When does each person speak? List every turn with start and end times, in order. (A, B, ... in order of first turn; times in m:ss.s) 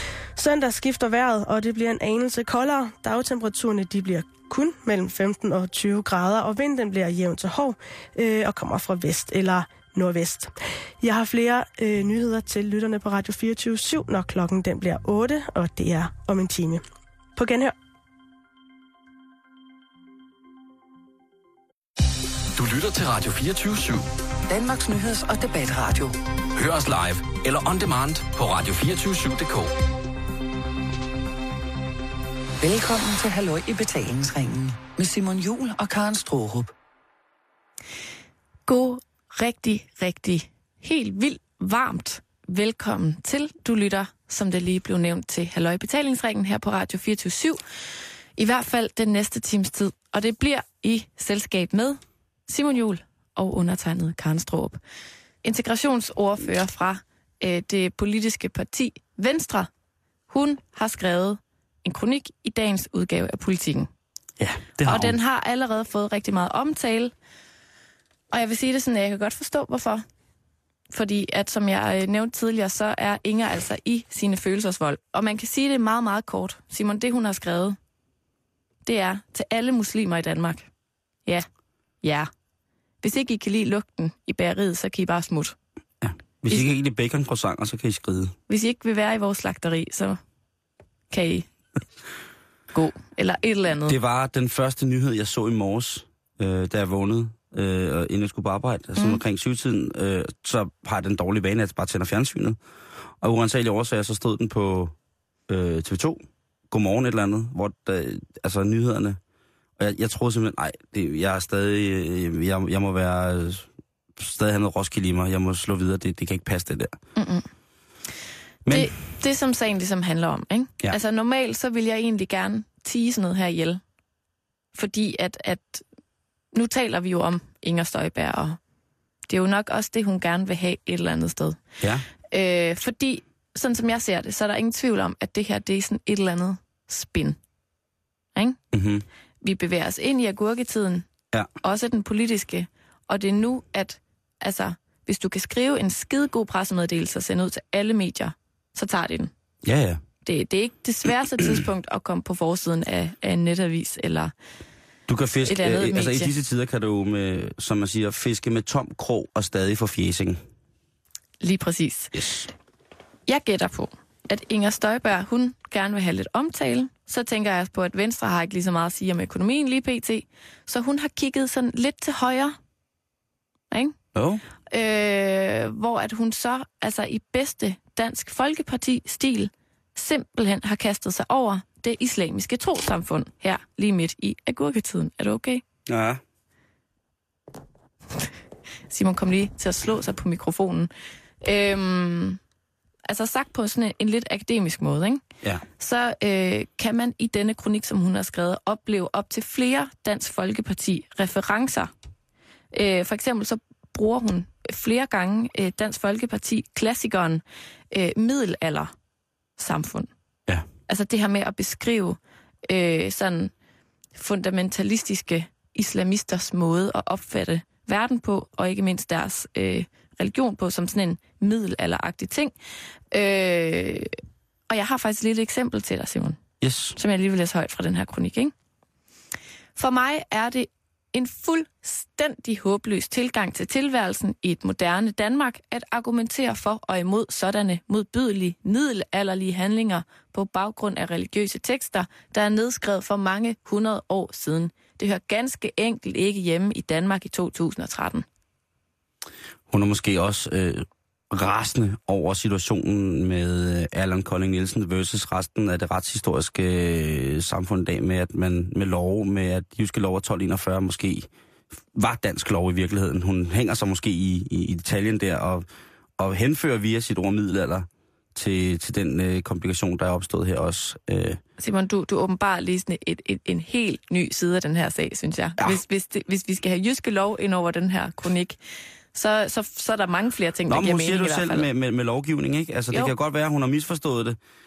0:00.3-0:16.8 A
0:17.4-0:17.7 A
0:22.5-0:24.1 B
0:24.5-0:26.2 C
0:26.5-0:29.7 B
0:32.6-0:36.7 C
0:38.7-0:47.6 D
0:48.4-0:54.8 D
0:55.4-0:59.7 D
1:00.3-1:03.9 D
1:04.4-1:05.2 E
1:04.8-1:07.1 D
1:08.3-1:10.0 D
1:10.9-1:17.8 D
1:18.8-1:20.7 D
1:22.0-1:22.3 D
1:23.0-1:25.6 D
1:26.0-1:28.3 E
1:28.5-1:30.2 D
1:31.1-1:31.5 D
1:32.7-1:34.0 D
1:33.9-1:42.6 E
1:39.0-1:39.2 D
1:43.2-1:44.9 E
1:45.5-1:49.2 E
1:49.8-1:57.0 E
1:57.2-1:57.4 D
1:58.6-1:58.9 E
1:58.7-2:03.8 D
2:04.7-2:05.8 D
2:06.5-2:08.6 D
2:09.3-2:11.6 D
2:11.8-2:12.0 E
2:12.3-2:17.4 D
2:18.7-2:19.0 E
2:19.4-2:21.1 D
2:21.6-2:29.3 D
2:29.6-2:30.0 E
2:30.2-2:34.3 D
2:35.1-2:40.4 E
2:35.4-2:36.3 D
2:41.4-2:42.1 D
2:42.1-2:42.5 E
2:43.3-2:52.6 D
2:53.7-2:54.0 D
2:54.1-2:54.4 E
2:54.7-3:05.6 D
3:05.9-3:06.2 E
3:08.9-3:10.9 D
3:11.4-3:12.4 D
3:13.0-3:15.2 D
3:15.8-3:21.9 D
3:22.7-3:28.9 D
3:29.6-3:30.1 D
3:30.9-3:33.5 D
3:34.1-3:42.5 D
3:43.1-3:44.2 D
3:44.7-3:46.4 D
3:46.6-3:47.0 E
3:47.0-3:48.5 D
3:49.8-4:08.2 D
4:09.7-4:21.3 E
4:21.9-4:25.6 E
4:26.2-4:31.4 E
4:31.6-4:38.6 D
4:39.1-4:41.6 D
4:40.7-4:44.4 E